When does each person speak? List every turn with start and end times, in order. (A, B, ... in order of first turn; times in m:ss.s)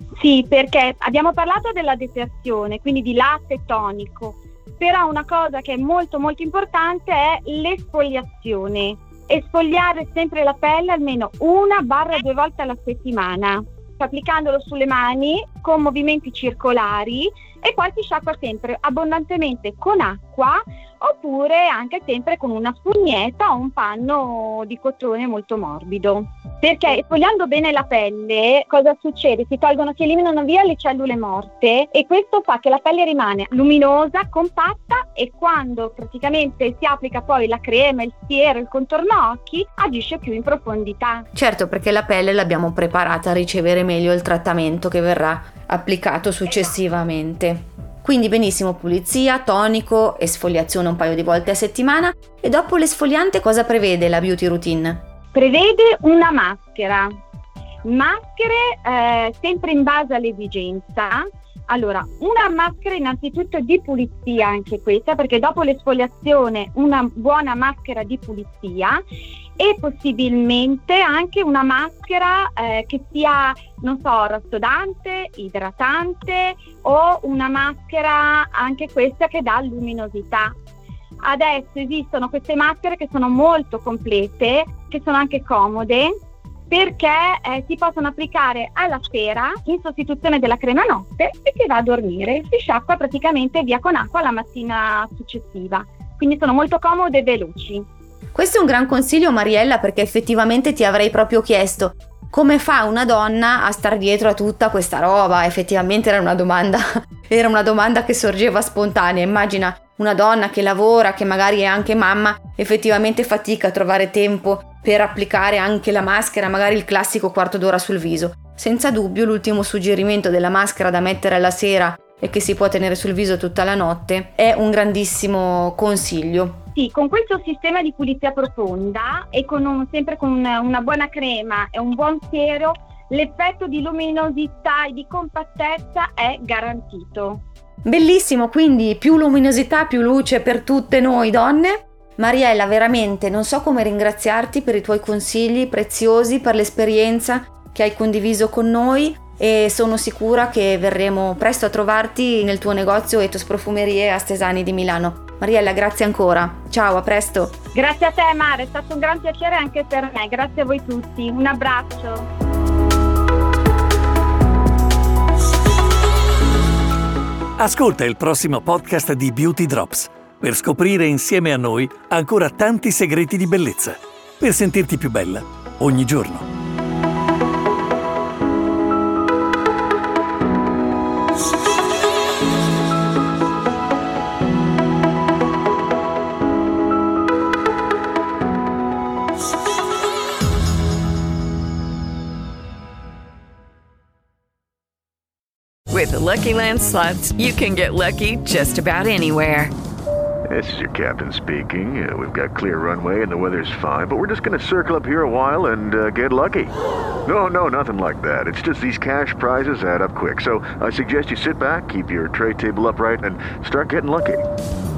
0:00.2-0:41.2 A
0:41.3-0:55.0 B
0:55.3-0:57.1 A
0:57.8-1:09.0 A
1:09.6-1:20.6 A
1:21.2-1:26.1 A
1:26.7-1:37.8 A
1:38.3-2:06.6 B
2:06.7-2:17.4 A
2:17.8-2:37.6 B
2:37.7-2:42.3 A
2:47.6-2:56.5 C
3:15.9-3:19.7 D
3:20.5-3:26.7 E
3:27.3-3:34.4 E